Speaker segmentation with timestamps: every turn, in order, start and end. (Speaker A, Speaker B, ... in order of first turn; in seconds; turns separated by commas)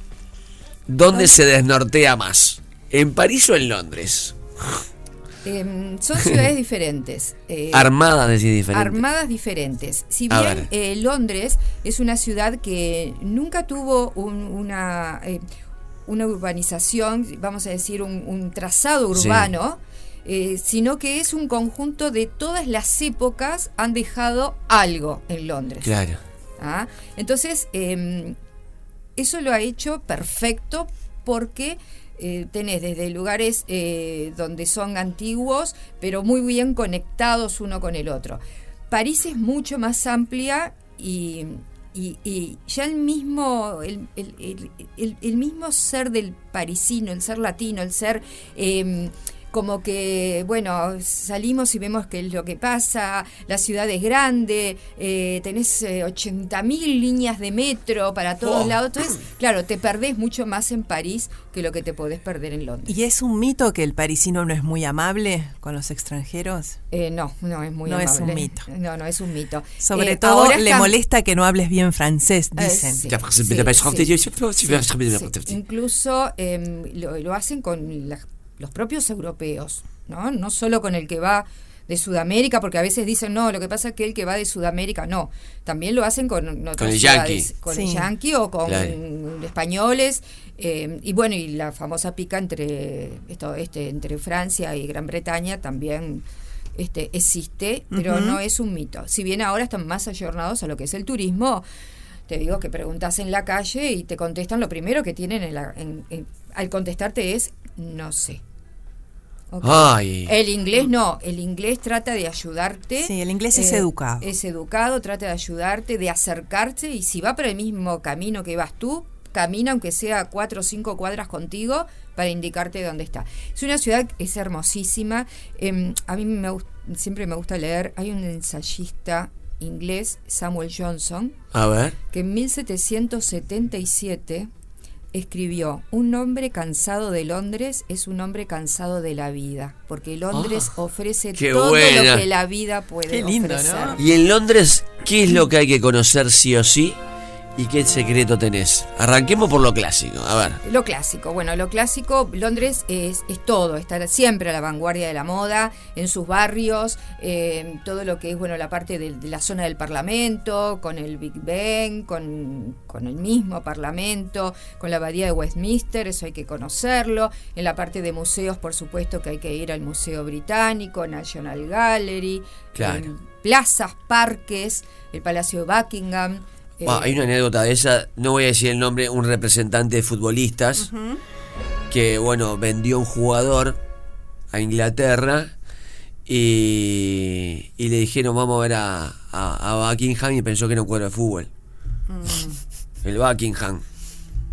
Speaker A: 0.9-4.4, Speaker B: 1.1-1.4, Speaker B: 5.4-7.9, Speaker A: 7.7-9.0, Speaker B: 8.7-15.4, Speaker A: 10.3-10.7, Speaker B: 16.1-25.9, Speaker A: 19.1-19.5, Speaker A: 25.8-26.2, Speaker B: 26.6-28.4, Speaker B: 29.1-63.0, Speaker A: 58.4-58.7, Speaker C: 62.9-66.8, Speaker B: 66.9-70.9, Speaker C: 67.8-68.7, Speaker C: 69.8-73.0, Speaker B: 72.5-101.6, Speaker A: 73.0-75.6, Speaker A: 86.8-87.5, Speaker C: 87.7-88.1, Speaker A: 88.7-88.9, Speaker C: 97.9-98.4, Speaker B: 102.3-108.4, Speaker B: 109.5-131.4, Speaker A: 109.6-110.3, Speaker C: 113.0-114.3, Speaker A: 131.5-131.9, Speaker B: 132.1-134.5, Speaker B: 135.1-144.0, Speaker A: 140.3-140.7, Speaker A: 141.3-142.2, Speaker C: 143.1-144.0, Speaker A: 144.0-147.0, Speaker A: 147.6-150.6, Speaker B: 150.6-177.2, Speaker A: 172.7-173.1, Speaker A: 176.8-180.9, Speaker C: 180.8-181.2, Speaker A: 181.9-183.8, Speaker A: 184.5-185.5, Speaker A: 186.3-191.5, Speaker A: 193.0-193.8